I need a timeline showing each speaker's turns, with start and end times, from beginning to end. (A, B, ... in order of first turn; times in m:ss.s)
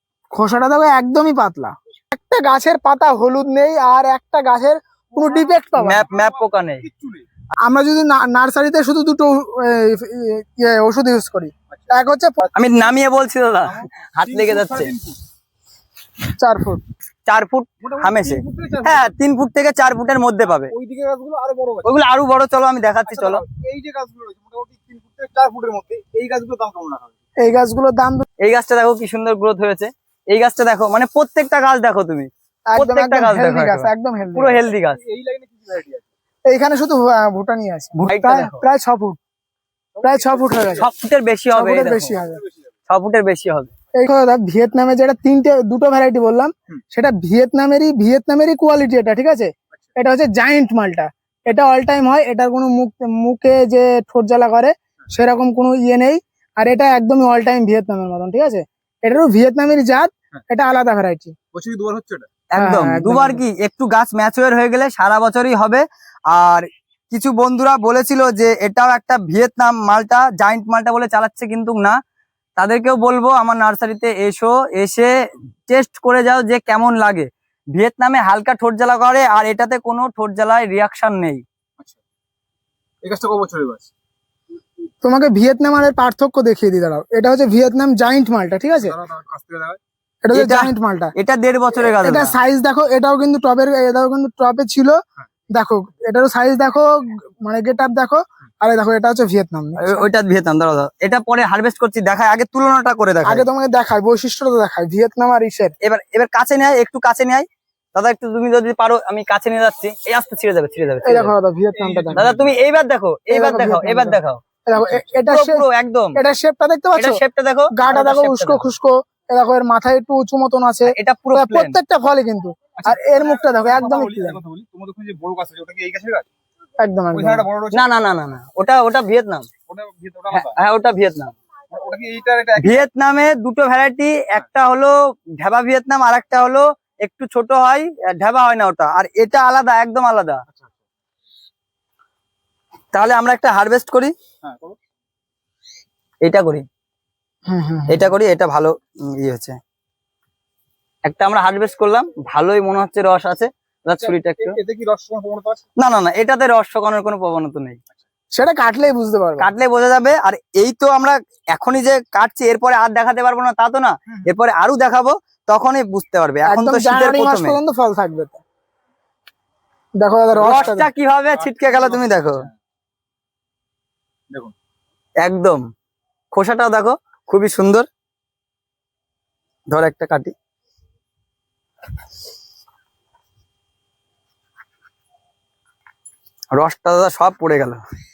0:00.3-0:06.1 A
0:05.2-0:07.3 B
0:05.8-0:06.9 C
0:07.6-0:12.5 A
0:11.7-0:13.0 B
0:12.6-0:14.9 C
0:13.7-0:15.2 B
0:16.4-0:16.8 A
0:17.3-0:20.7 C
0:17.8-0:19.2 B
0:20.5-0:21.9 B
0:21.8-0:23.4 C
0:23.1-0:27.2 B
0:27.4-0:28.3 A
0:28.4-0:35.0 C
0:32.7-0:34.7 A
0:34.9-0:36.1 B
0:36.5-0:39.2 A
0:38.0-0:38.6 C
0:40.0-0:40.9 B
0:40.0-0:40.9 A
0:40.8-0:42.2 C
0:41.5-0:42.4 A
0:42.2-0:42.7 B
0:42.9-0:43.7 C
0:43.9-1:01.4 A
1:01.5-1:02.3 B
1:02.5-1:12.0 C
1:02.6-1:03.4 A
1:12.6-1:15.1 C
1:15.7-1:21.4 C
1:23.0-1:23.9 B
1:25.0-1:29.0 A
1:28.7-1:29.8 B
1:30.2-1:31.1 A
1:30.3-1:32.3 C
1:32.0-1:35.0 A
1:35.5-1:40.1 A
1:39.8-1:43.4 C
1:43.2-1:45.8 A
1:45.8-1:51.3 C
1:51.0-1:52.3 A
1:51.7-1:52.5 B
1:52.2-1:54.4 C
1:53.3-1:57.2 A
1:55.2-1:56.2 C
1:57.0-1:58.7 C
1:57.7-2:04.4 A
2:00.9-2:01.8 C
2:02.8-2:06.3 B
2:06.8-2:07.4 A
2:07.1-2:07.8 B
2:07.7-2:09.5 C
2:09.7-2:10.6 B
2:10.3-2:11.4 C
2:11.7-2:12.9 B
2:12.6-2:20.4 C
2:22.9-2:24.1 C
2:24.4-2:24.8 B
2:26.2-2:26.7 C
2:27.5-2:28.1 A
2:27.9-2:29.6 C
2:31.0-2:34.6 C
2:34.0-2:35.6 B
2:35.8-2:37.8 C
2:38.3-2:39.5 A
2:39.4-2:47.6 C
2:46.5-2:48.4 A
2:50.0-2:50.9 A
2:50.4-2:50.8 B
2:50.4-2:52.5 C
2:51.3-2:52.5 B
2:55.2-2:55.6 C
2:56.3-2:57.9 C
2:59.7-3:00.3 C
3:06.5-3:07.8 C